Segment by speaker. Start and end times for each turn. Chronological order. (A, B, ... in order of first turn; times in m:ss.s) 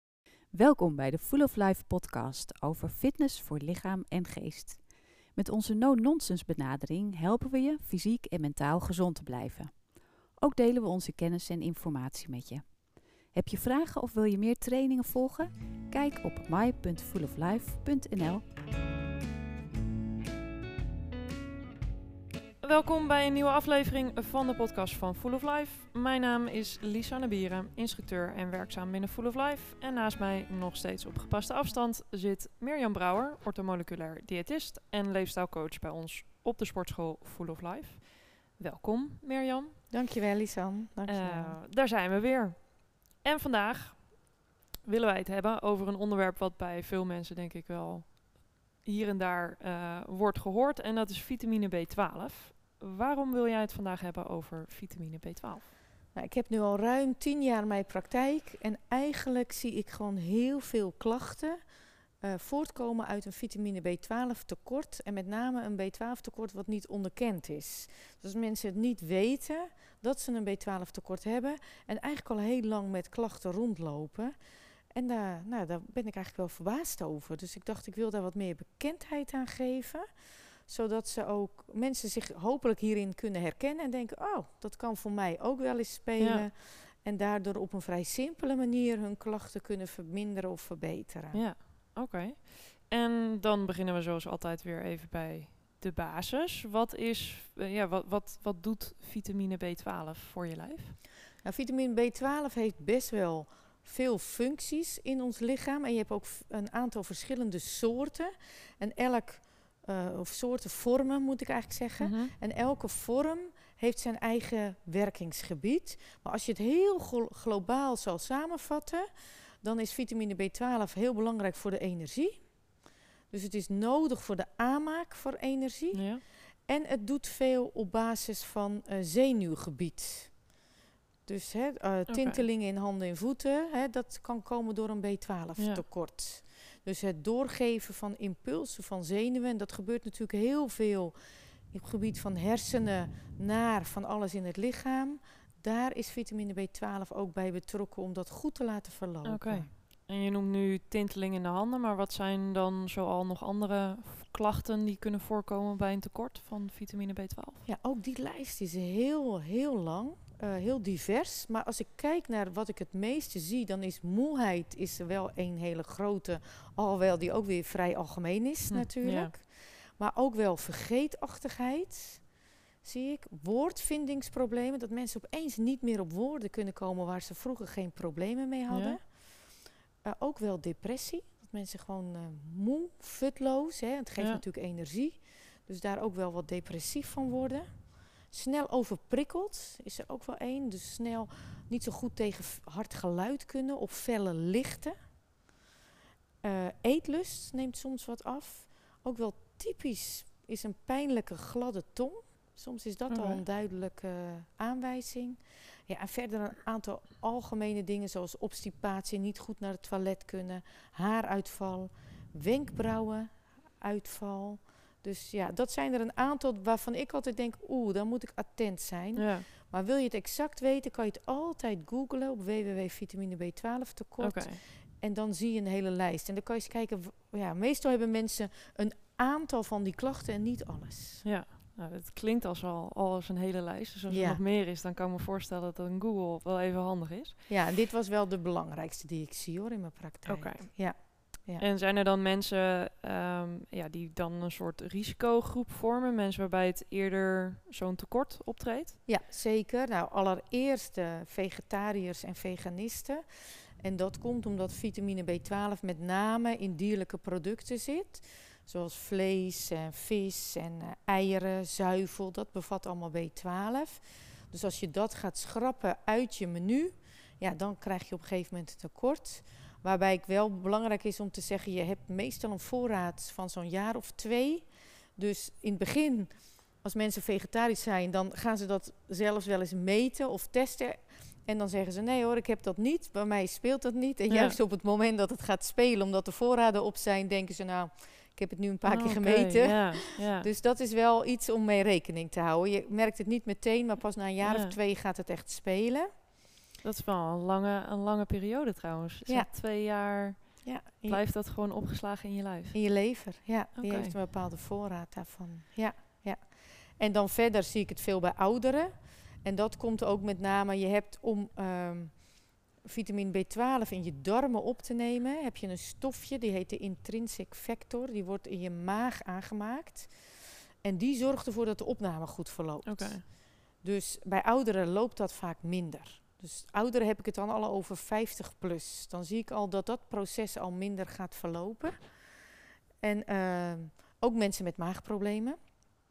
0:00.5-0:18.5 A
0:22.6-0:39.9 B
0:39.9-0:41.6 C
0:41.1-0:55.6 B
0:56.1-1:01.6 C
1:02.2-1:14.4 C
1:14.9-1:20.1 C
1:20.6-1:31.4 C
1:26.2-1:26.5 B
1:31.3-1:41.0 B
1:41.4-1:59.1 C
1:52.0-1:52.3 B
1:59.6-2:02.6 C
2:03.3-2:10.5 C
2:05.9-2:06.2 B
2:11.3-2:21.2 C
2:12.1-2:12.4 B
2:15.6-2:15.8 B
2:21.7-2:29.7 C
2:29.2-2:37.6 B
2:37.6-2:52.3 C
2:48.7-2:49.3 B
2:52.8-3:15.0 C
2:58.7-2:59.0 B
3:16.4-3:51.2 C
3:23.1-3:23.4 B
3:39.2-3:39.5 B
3:44.2-3:44.6 B
3:51.2-3:57.6 B
3:54.1-3:54.4 C
3:57.5-4:01.6 C
4:00.3-4:09.0 B
4:09.1-4:56.2 C
4:44.3-4:44.6 B
4:48.8-4:50.5 B
4:54.4-4:54.8 B
4:56.8-5:02.8 B
5:00.6-5:01.2 C
5:02.7-5:32.3 C
5:03.8-5:04.1 B
5:22.8-5:23.2 B
5:33.0-5:35.6 C